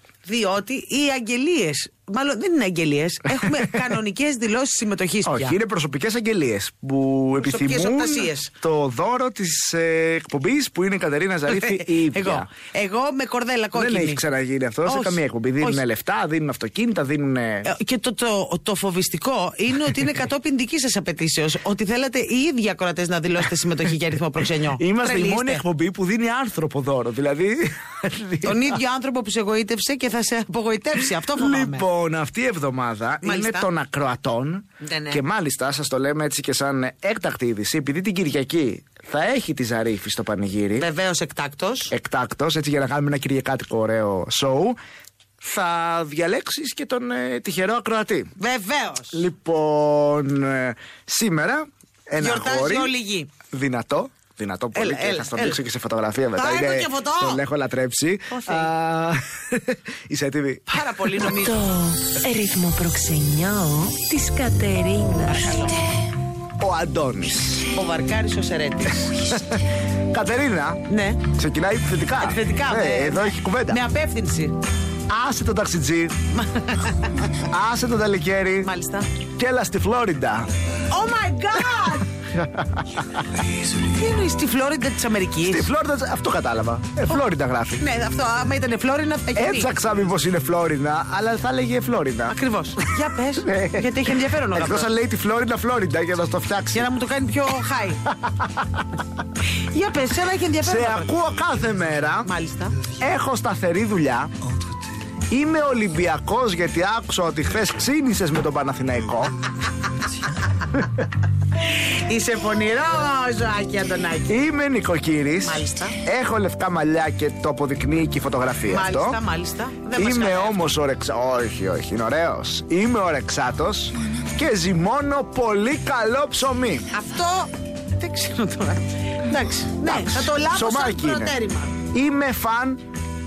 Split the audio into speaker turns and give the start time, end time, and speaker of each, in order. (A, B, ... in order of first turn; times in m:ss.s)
0:00.2-0:05.6 A
0:03.4-0:03.7 B
0:05.2-0:12.5 B
0:07.4-0:08.5 A
0:11.5-0:14.2 A
0:13.7-0:17.7 B
0:14.9-0:15.8 A
0:17.6-0:25.6 A
0:24.8-0:28.8 B
0:28.4-0:31.8 A
0:31.2-0:40.9 B
0:33.2-0:33.7 A
0:34.8-0:35.2 A
0:40.8-0:41.9 A
0:41.9-0:44.8 B
0:45.4-0:48.3 B
0:48.4-0:49.2 A
0:49.1-0:52.9 B
0:52.2-0:53.3 A
0:53.5-1:01.3 B
0:54.8-0:55.6 A
0:56.4-0:57.4 A
0:58.3-0:58.7 A
1:00.7-1:01.7 A
1:01.5-1:05.3 C
1:05.2-1:05.8 A
1:06.6-1:07.7 B
1:07.7-1:09.2 A
1:09.1-1:13.8 B
1:10.9-1:11.2 A
1:12.2-1:14.5 A
1:15.1-1:16.2 B
1:16.3-1:17.3 A
1:17.3-1:18.7 B
1:18.6-1:19.1 A
1:19.4-1:20.5 B
1:20.9-1:22.1 A
1:22.2-1:23.2 B
1:23.6-1:25.7 A
1:25.4-1:27.8 B
1:27.8-1:29.7 A
1:29.4-1:32.4 B
1:32.3-1:34.9 A
1:33.4-1:33.9 B
1:34.5-1:36.9 B
1:36.7-1:38.0 A
1:38.2-1:38.8 B
1:39.6-1:41.1 A
1:40.6-1:42.3 B
1:42.2-1:42.8 A
1:42.9-1:44.3 B
1:45.3-1:49.4 B
1:51.6-1:54.4 A
1:54.3-1:59.2 B
1:55.4-1:56.0 A
1:58.7-2:00.7 A
2:00.0-2:06.9 B
2:06.9-2:11.8 A
2:09.8-2:12.8 B